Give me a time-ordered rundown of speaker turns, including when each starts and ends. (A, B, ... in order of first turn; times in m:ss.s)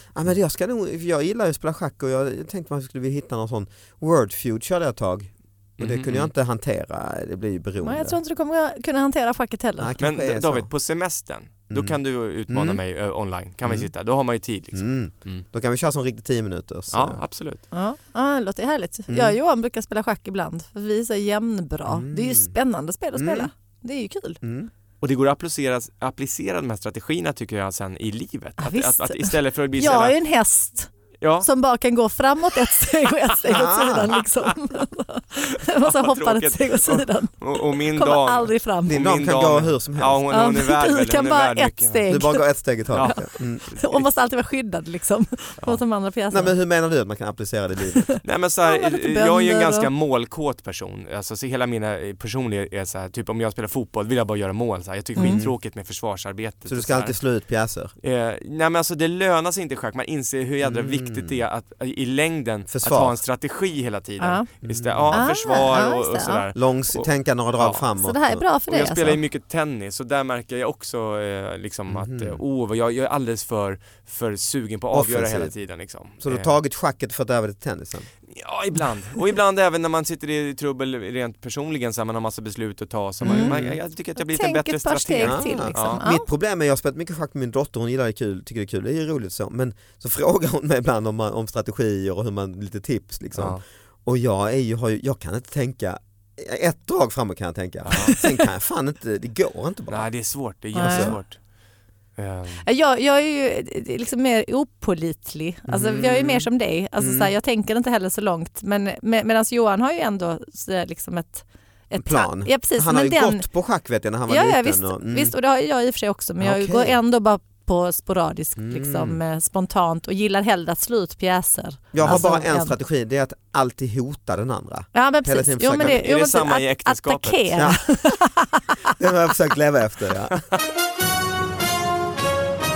0:00.1-0:08.2 A
0:05.8-0:06.3 B
0:07.8-0:09.9 C
0:09.8-0:10.7 A
0:10.0-0:15.4 B
0:11.7-0:12.8 A
0:13.6-0:13.9 A
0:14.7-0:17.2 A
0:16.9-0:17.6 B
0:17.7-0:24.4 C
0:19.1-0:19.4 A
0:21.9-0:22.5 A
0:23.1-0:23.5 A
0:24.4-0:24.7 A
0:25.0-0:30.2 B
0:28.6-0:30.9 C
0:31.2-0:31.5 B
0:31.4-0:39.0 C
0:33.5-0:34.2 A
0:35.6-0:42.1 B
0:38.8-0:40.2 A
0:40.3-0:42.4 C
0:42.1-0:43.6 A
0:42.9-0:44.0 B
0:43.0-0:46.5 C
0:46.3-0:48.1 A
0:47.9-0:49.9 C
0:48.2-0:57.1 B
0:55.2-0:55.4 C
0:55.2-0:55.5 A
0:56.7-0:57.9 A
0:58.0-1:07.8 B
1:00.6-1:01.4 A
1:02.7-1:03.2 A
1:04.2-1:04.4 C
1:04.6-1:05.2 A
1:05.1-1:06.4 C
1:06.5-1:08.4 A
1:08.0-1:09.2 C
1:08.7-1:16.5 B
1:11.9-1:12.4 A
1:14.9-1:15.5 A
1:16.2-1:18.1 A
1:18.3-1:26.0 B
1:23.2-1:23.8 A
1:23.2-1:23.6 C
1:24.2-1:26.2 C
1:25.2-1:40.1 A
1:33.4-1:33.6 B
1:37.8-1:38.2 B
1:39.9-1:41.4 B
1:40.7-1:41.2 C
1:40.8-1:41.2 A
1:42.2-1:42.6 B
1:42.6-1:53.4 C
1:45.7-1:46.5 A
1:47.0-1:47.3 A
1:52.0-1:55.3 A
1:54.3-2:02.8 C
1:56.4-1:57.0 A
1:58.6-1:59.2 A
2:01.9-2:06.0 A
2:04.9-2:08.9 C
2:05.8-2:07.7 B
2:07.6-2:07.8 A
2:08.9-2:10.4 A